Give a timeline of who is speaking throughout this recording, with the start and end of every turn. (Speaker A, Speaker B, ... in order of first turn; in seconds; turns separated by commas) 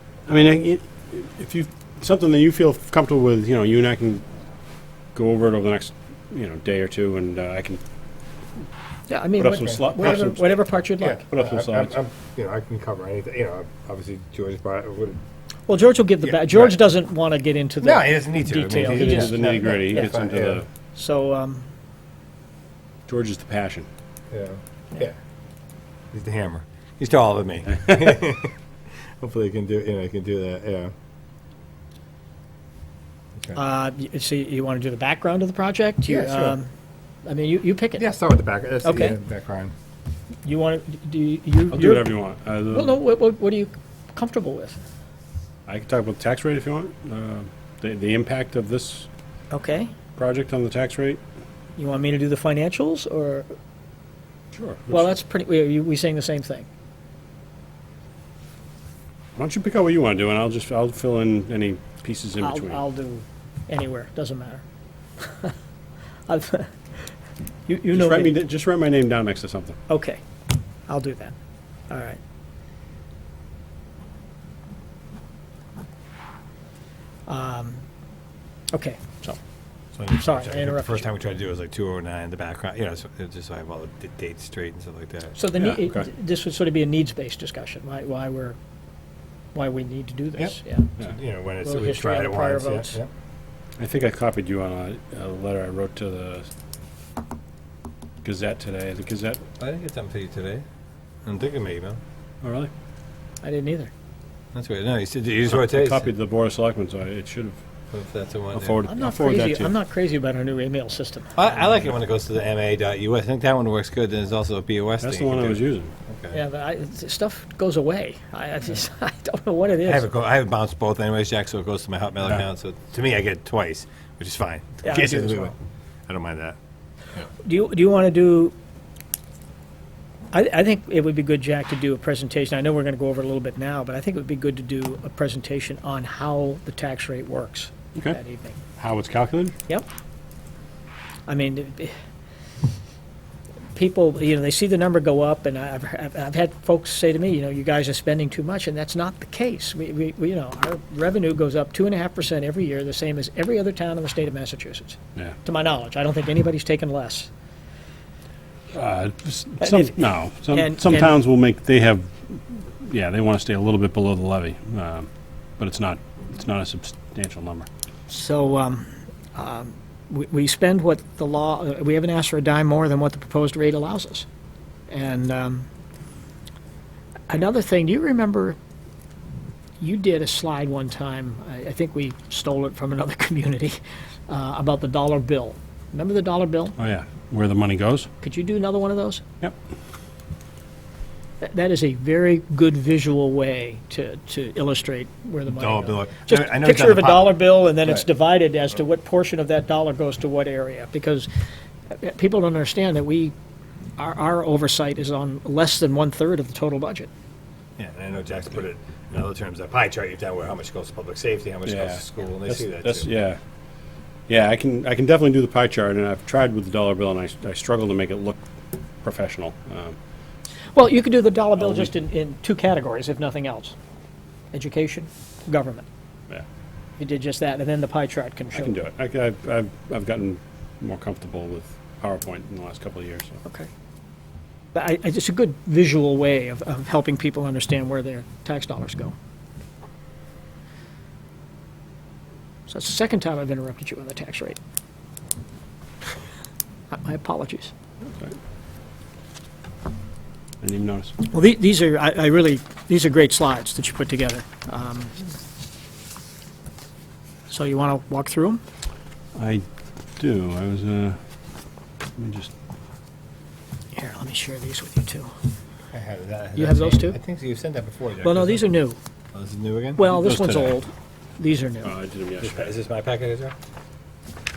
Speaker A: 0.3-4.2, Speaker A: 5.1-7.8, Speaker B: 9.1-11.2, Speaker A: 9.4-10.6, Speaker C: 9.6-10.3, Speaker C: 11.0-15.2, Speaker A: 11.3-11.9, Speaker B: 15.7-20.1, Speaker C: 16.2-16.8, Speaker C: 17.8-20.6, Speaker A: 18.7-20.7, Speaker B: 20.9-21.7, Speaker A: 23.1-23.9, Speaker C: 24.3-25.1, Speaker C: 26.1-28.5, Speaker C: 29.2-30.9, Speaker B: 33.5-36.7, Speaker C: 36.0-36.6, Speaker B: 37.2-38.0, Speaker C: 38.0-39.7, Speaker B: 38.8-39.2, Speaker B: 40.4-42.1, Speaker A: 41.7-43.0, Speaker B: 42.7-44.8, Speaker A: 45.7-49.1, Speaker B: 49.5-49.9, Speaker A: 50.1-51.2, Speaker B: 51.8-53.5, Speaker A: 54.5-55.0, Speaker B: 54.9-56.6, Speaker A: 59.4-62.8, Speaker B: 62.4-64.6, Speaker B: 65.2-65.5, Speaker B: 66.3-67.1, Speaker B: 67.7-68.3, Speaker A: 67.9-69.8, Speaker B: 69.9-70.2, Speaker B: 70.9-71.3, Speaker B: 71.9-72.2, Speaker B: 77.3-77.8, Speaker B: 78.7-79.0, Speaker C: 79.9-85.4, Speaker B: 80.2-81.0, Speaker B: 85.3-88.6, Speaker A: 85.6-86.0, Speaker B: 89.5-90.9, Speaker C: 90.4-93.1, Speaker B: 91.6-93.0, Speaker A: 93.8-96.5, Speaker A: 98.2-99.4, Speaker C: 99.6-100.6, Speaker C: 101.2-102.0, Speaker A: 102.4-102.7, Speaker B: 103.4-103.9, Speaker C: 104.5-106.1, Speaker A: 105.5-107.6, Speaker C: 107.9-108.8, Speaker A: 108.5-109.7, Speaker B: 108.9-111.3, Speaker C: 111.3-116.4, Speaker A: 115.0-115.9, Speaker B: 116.3-120.0, Speaker C: 119.8-125.5, Speaker B: 124.8-125.5, Speaker C: 126.1-126.6, Speaker B: 127.4-128.5, Speaker B: 130.3-138.6, Speaker A: 138.7-139.5, Speaker B: 141.3-141.9, Speaker B: 143.7-157.3, Speaker A: 158.7-167.7, Speaker B: 159.6-161.2, Speaker B: 168.1-174.2, Speaker B: 174.9-175.7, Speaker B: 177.3-178.6, Speaker B: 179.8-186.8, Speaker A: 186.8-188.1, Speaker B: 188.2-189.2, Speaker B: 191.4-201.3, Speaker C: 195.5-198.1, Speaker B: 201.9-203.3, Speaker B: 204.0-207.1, Speaker C: 207.8-213.1, Speaker A: 211.6-213.4, Speaker A: 214.3-218.4, Speaker A: 219.0-220.0, Speaker B: 220.7-223.7, Speaker A: 221.6-221.9, Speaker B: 224.5-225.9, Speaker B: 227.0-228.7, Speaker A: 228.5-233.4, Speaker B: 234.7-239.1, Speaker B: 242.7-244.6, Speaker B: 246.9-247.7, Speaker A: 250.6-251.1, Speaker B: 251.3-255.2, Speaker B: 257.5-258.6, Speaker A: 259.3-261.2, Speaker A: 262.1-262.5, Speaker B: 263.9-265.3, Speaker C: 265.9-268.8, Speaker B: 266.6-267.2, Speaker B: 268.2-269.0, Speaker C: 269.3-270.0, Speaker B: 269.9-271.9, Speaker A: 270.0-270.8, Speaker A: 271.8-272.7, Speaker C: 272.4-273.5